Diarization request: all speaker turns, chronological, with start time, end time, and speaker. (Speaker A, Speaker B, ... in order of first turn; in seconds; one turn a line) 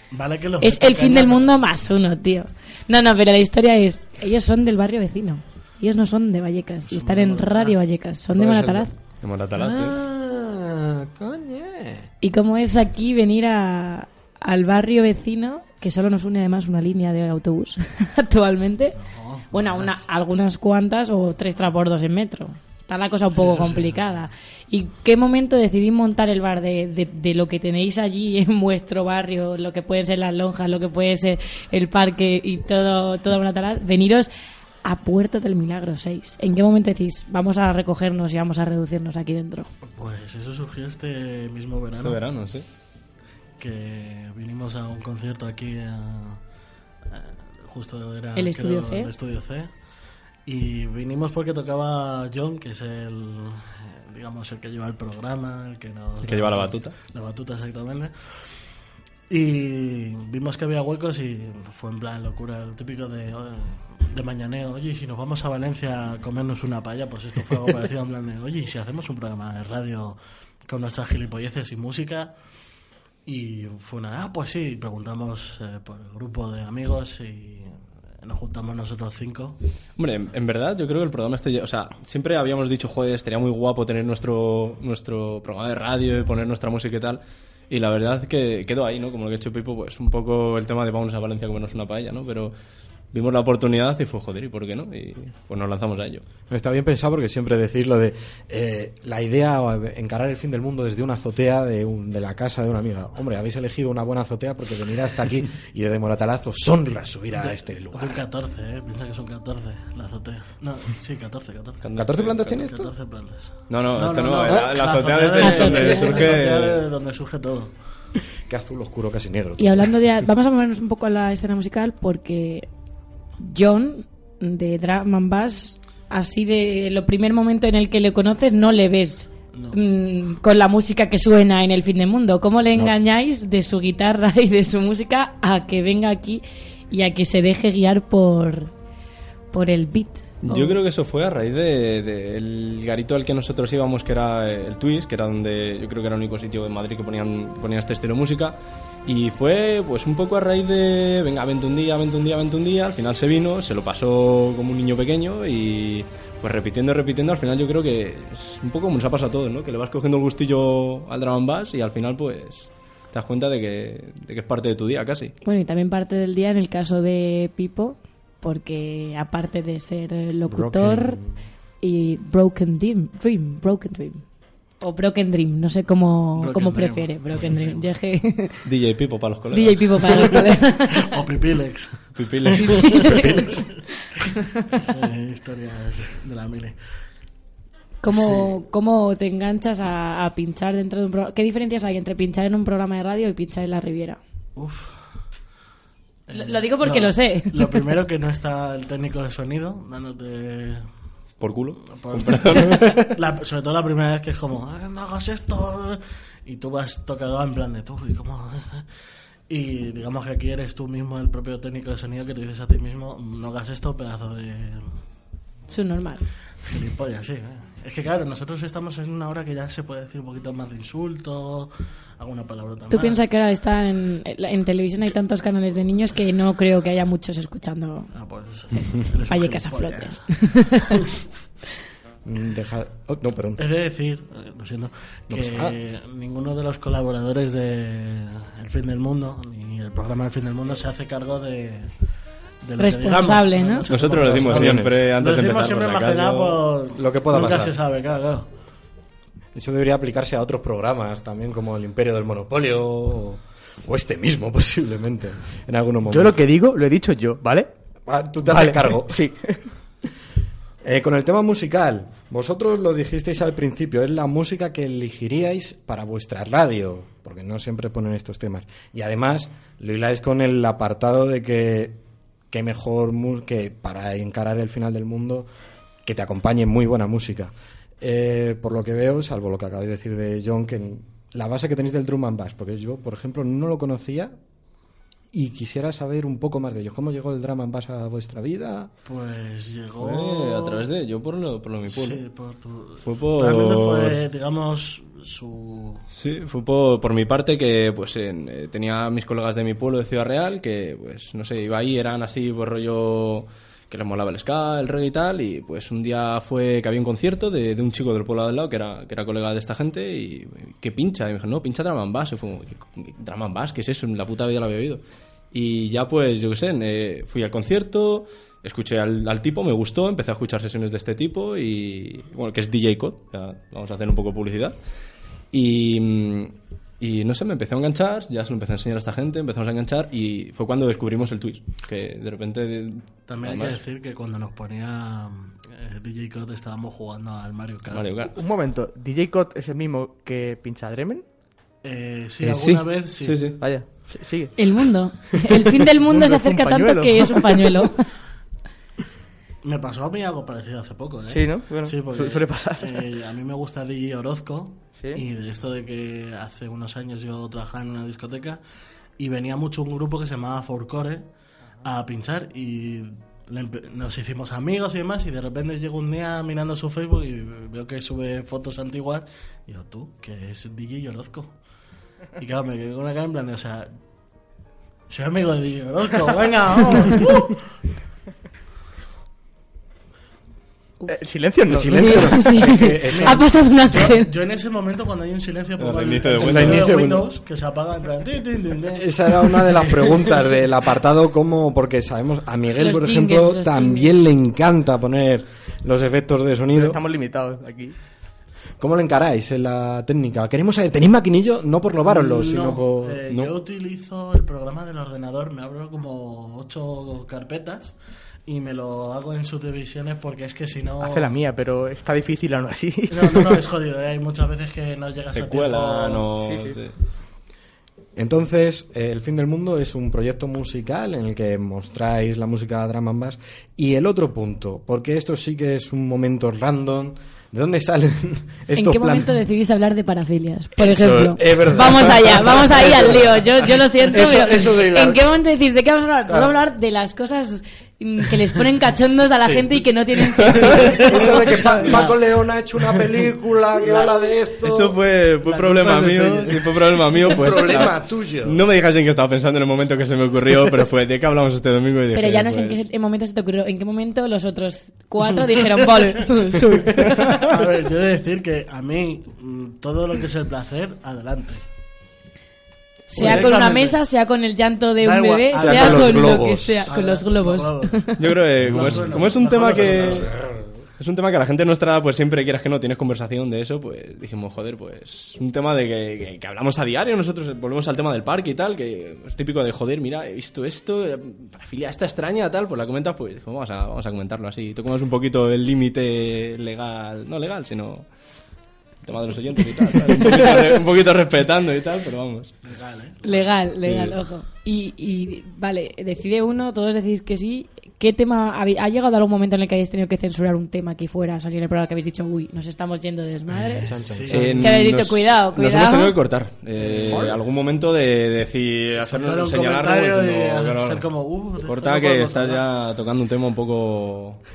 Speaker A: 0.1-1.9
Speaker B: 0.6-8.9
Speaker A: 6.9-7.8
Speaker C: 8.3-8.9
Speaker D: 9.2-9.9
Speaker C: 9.5-12.1
Speaker B: 12.2-19.0
Speaker A: 19.0-20.0
Speaker B: 19.5-34.3
Speaker A: 23.3-24.2
Speaker B: 34.8-39.7
Speaker A: 39.9-42.2
Speaker D: 42.0-42.6
Speaker A: 43.6-46.4
Speaker A: 47.1-49.7
Speaker B: 48.4-49.1
Speaker A: 50.5-58.1
Speaker D: 56.2-56.9
Speaker A: 59.3-72.3
Speaker A: 73.2-79.6
Speaker D: 80.0-92.5
Speaker D: 93.1-96.2
Speaker C: 96.5-108.2
Speaker A: 107.4-117.7
Speaker D: 111.8-112.6
Speaker C: 112.0-112.9
Speaker D: 113.7-116.8
Speaker C: 114.5-114.7
Speaker B: 115.4-115.7
Speaker C: 115.7-116.0
Speaker C: 118.5-120.0
Speaker B: 119.6-122.7
Speaker B: 123.4-138.7
Speaker A: 129.5-129.8
Speaker B: 139.5-140.8
Speaker D: 140.4-165.3
Speaker B: 165.4-171.2
Speaker C: 170.5-171.4
Speaker B: 171.8-174.2
Speaker B: 174.8-178.6
Speaker A: 176.4-177.8
Speaker D: 178.6-180.1
Speaker B: 179.5-181.1
Speaker A: 181.0-183.8
Speaker D: 182.2-183.5
Speaker B: 182.6-184.0
Speaker A: 184.8-186.8
Speaker B: 188.0-194.2
Speaker A: 188.1-188.5
Speaker A: 194.6-195.0
Speaker A: 196.3-200.8
Speaker B: 196.3-197.8
Speaker D: 201.4-203.1
Speaker A: 201.9-208.9
Speaker A: 209.5-214.9
Speaker B: 215.7-216.3
Speaker A: 216.6-223.2
Speaker B: 222.9-228.1
Speaker A: 228.1-230.4
Speaker B: 228.8-231.0
Speaker C: 232.2-233.6
Speaker A: 233.6-241.9
Speaker C: 235.3-235.8
Speaker A: 242.6-248.5
Speaker B: 242.8-243.9
Speaker D: 243.9-246.6
Speaker C: 244.4-244.9
Speaker C: 246.9-247.8
Speaker C: 249.6-256.4
Speaker E: 256.1-257.7
Speaker C: 258.1-259.2
Speaker E: 258.4-259.6
Speaker C: 260.8-272.0
Speaker C: 272.5-275.5
Speaker C: 276.0-284.4
Speaker C: 285.3-288.9
Speaker A: 289.1-290.9
Speaker D: 290.0-292.2
Speaker A: 291.9-296.0
Speaker D: 293.0-294.2
Speaker D: 296.1-324.8
Speaker D: 325.5-333.8
Speaker A: 333.3-338.1
Speaker D: 337.9-338.3
Speaker E: 338.3-341.2
Speaker A: 341.8-343.6
Speaker D: 342.4-343.6
Speaker E: 343.6-344.5
Speaker B: 344.6-348.1
Speaker E: 345.9-347.8
Speaker A: 349.6-358.6
Speaker E: 351.3-353.1
Speaker E: 355.0-355.2
Speaker A: 359.2-361.2
Speaker A: 361.8-371.6
Speaker A: 372.4-373.9
Speaker A: 375.1-377.6
Speaker E: 381.1-382.2
Speaker C: 381.7-383.5
Speaker B: 381.9-384.3
Speaker A: 383.0-390.1
Speaker D: 385.8-386.9
Speaker C: 386.4-387.2
Speaker C: 388.9-397.0
Speaker B: 392.8-394.1
Speaker E: 396.7-397.9
Speaker C: 398.8-403.5
Speaker A: 402.1-407.9
Speaker A: 408.5-411.4
Speaker E: 411.0-413.6
Speaker A: 413.1-416.3
Speaker D: 415.3-417.0
Speaker E: 416.5-416.8
Speaker C: 418.1-429.4
Speaker B: 428.8-442.0
Speaker C: 430.8-435.2
Speaker C: 436.3-436.5
Speaker C: 439.4-439.7
Speaker C: 440.6-445.0
Speaker A: 440.7-442.2
Speaker D: 444.6-452.9
Speaker A: 445.5-446.0
Speaker C: 446.1-446.5
Speaker C: 447.2-448.6
Speaker B: 452.1-457.3
Speaker A: 455.4-456.1
Speaker A: 456.7-461.6
Speaker B: 463.1-468.2
Speaker A: 463.1-464.0
Speaker C: 463.2-463.5
Speaker A: 465.0-470.3
Speaker C: 465.5-466.9
Speaker D: 468.2-470.3
Speaker C: 468.7-470.7
Speaker D: 471.0-488.1
Speaker D: 489.0-492.6
Speaker A: 492.6-493.5
Speaker B: 493.2-503.9
Speaker D: 493.8-494.1
Speaker C: 503.9-504.9
Speaker A: 503.9-504.4
Speaker D: 504.3-511.1
Speaker B: 504.6-506.1
Speaker C: 506.8-507.4
Speaker A: 506.9-507.3
Speaker A: 509.0-512.6
Speaker D: 511.6-514.4